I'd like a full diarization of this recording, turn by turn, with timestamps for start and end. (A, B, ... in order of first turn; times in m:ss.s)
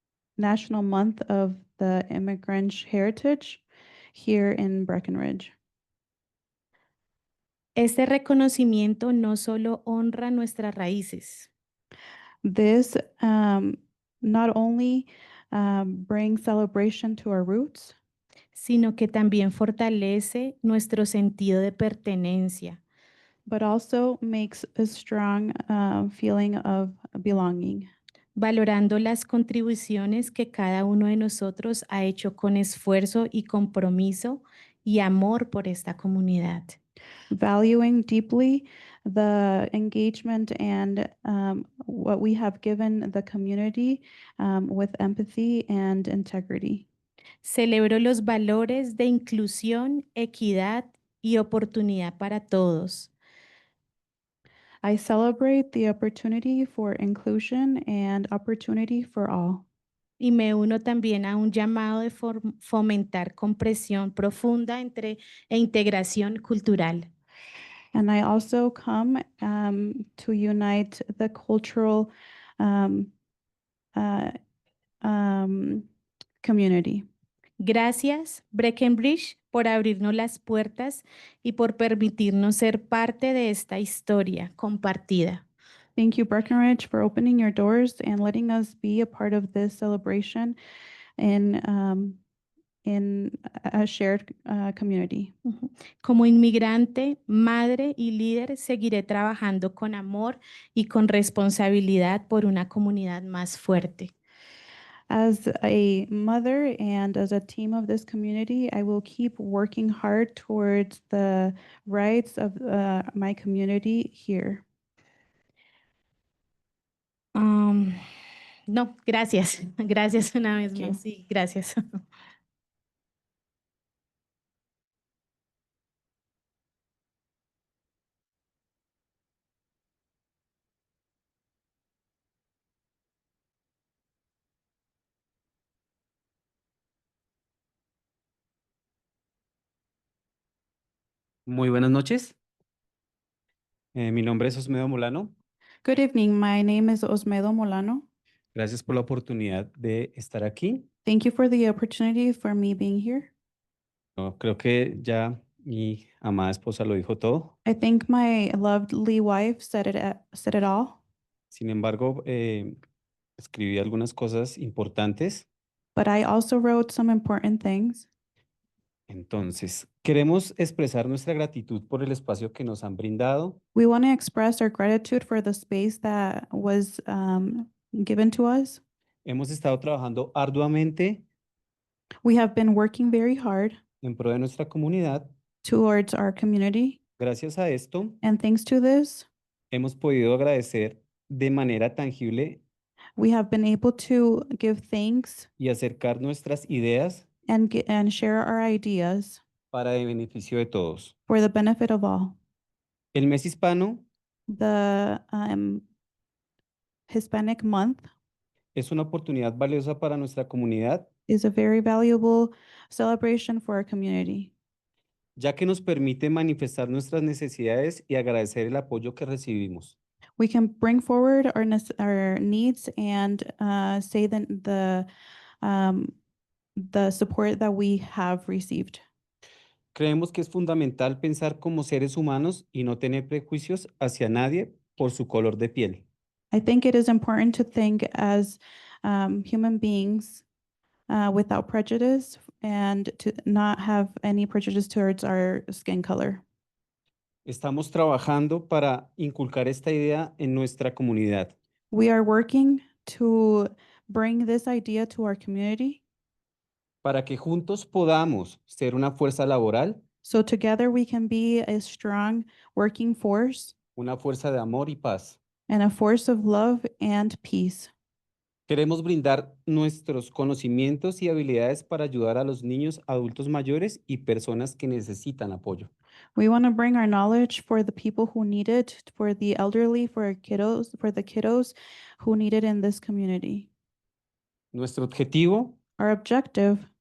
0:00.4-0:05.5 A
0:07.8-0:11.5 B
0:12.4-0:18.0 A
0:18.5-0:22.8 B
0:23.5-0:27.9 A
0:28.4-0:36.8 B
0:37.3-0:46.9 A
0:47.4-0:53.1 B
0:54.8-0:59.6 A
1:00.2-1:07.0 B
1:07.9-1:13.1 A
1:14.0-1:14.3 A
1:15.0-1:15.9 A
1:16.4-1:17.1 A
1:17.6-1:25.4 B
1:26.0-1:30.6 A
1:31.2-1:32.2 A
1:32.8-1:35.3 A
1:35.5-1:44.1 B
1:45.1-1:54.6 A
1:57.4-1:58.0 B
1:58.7-2:01.8 B
2:21.5-2:22.4 C
2:24.0-2:25.4 C
2:25.8-2:28.0 A
2:28.6-2:30.9 C
2:31.0-2:33.3 A
2:34.2-2:37.5 C
2:37.6-2:41.0 A
2:41.5-2:42.8 C
2:43.4-2:45.5 C
2:46.0-2:48.1 A
2:49.1-2:53.6 C
2:53.8-2:58.8 A
2:59.2-3:01.2 C
3:02.2-3:03.8 A
3:04.0-3:05.3 C
3:05.6-3:07.0 A
3:07.2-3:08.2 C
3:08.2-3:09.3 A
3:09.7-3:12.6 C
3:13.2-3:15.5 A
3:15.6-3:17.2 C
3:17.5-3:19.4 A
3:19.7-3:21.1 C
3:21.3-3:22.4 A
3:23.1-3:24.0 C
3:24.5-3:25.8 A
3:27.1-3:28.1 A
3:28.8-3:31.1 C
3:31.3-3:34.5 A
3:35.4-3:40.0 C
3:40.4-3:45.1 A
3:45.6-3:46.1 A
3:46.8-3:49.0 A
3:49.9-3:56.0 C
3:56.5-4:00.4 A
4:01.1-4:06.4 A
4:07.5-4:11.6 C
4:11.9-4:16.0 A
4:17.0-4:20.0 C
4:20.2-4:23.8 A
4:24.0-4:25.4 C
4:25.7-4:27.9 A
4:28.7-4:35.9 C
4:36.4-4:43.7 A
4:44.7-4:45.8 C
4:46.0-4:46.9 A